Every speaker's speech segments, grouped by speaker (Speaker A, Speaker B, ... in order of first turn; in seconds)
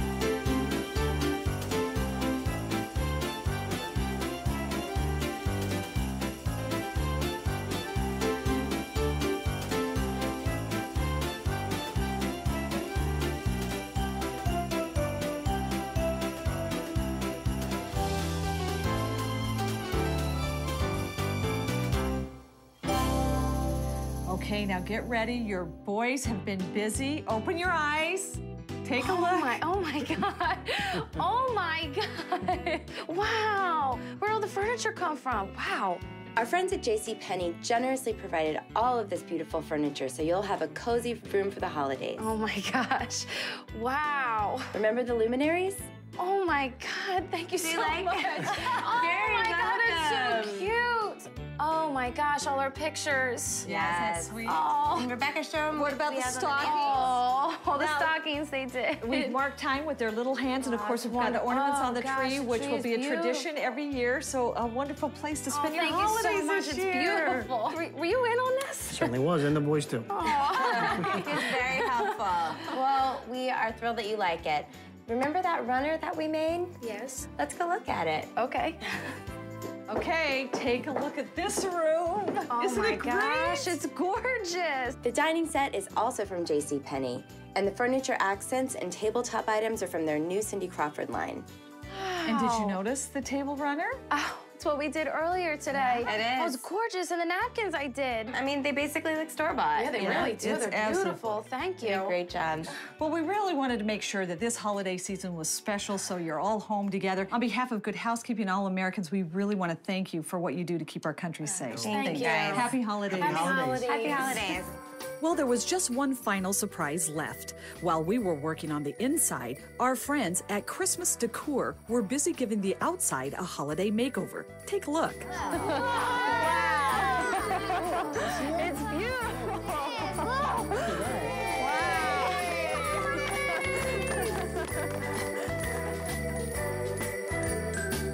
Speaker A: 24.2-29.6, 53.6-54.7, 55.7-57.2, 57.7-58.1, 59.0-67.5, 79.9-83.8, 92.2-94.0, 95.7-96.1, 100.0-101.4, 103.0-113.7, 115.2-130.9, 131.7-132.6
Speaker B: 29.0-36.0, 42.2-44.7, 46.2-53.7, 54.5-55.1, 56.6-59.4, 60.6-63.5, 65.5-69.2, 70.1-72.2, 76.8-77.2, 78.3-79.2, 82.5-85.0, 91.9-92.8, 94.1-98.3, 99.7-102.2, 111.8-114.5, 125.5-128.3, 131.5-133.9
Speaker C: 36.4-42.2, 44.7-45.9, 47.6-50.7, 53.6-57.2, 70.3-78.3, 85.0-91.5, 96.0-96.6, 98.3-100.3, 101.8-102.7, 111.8-112.7, 113.8-114.7
Speaker D: 68.9-70.1, 70.7-71.0, 113.0-113.9, 127.9-128.8, 130.7-131.4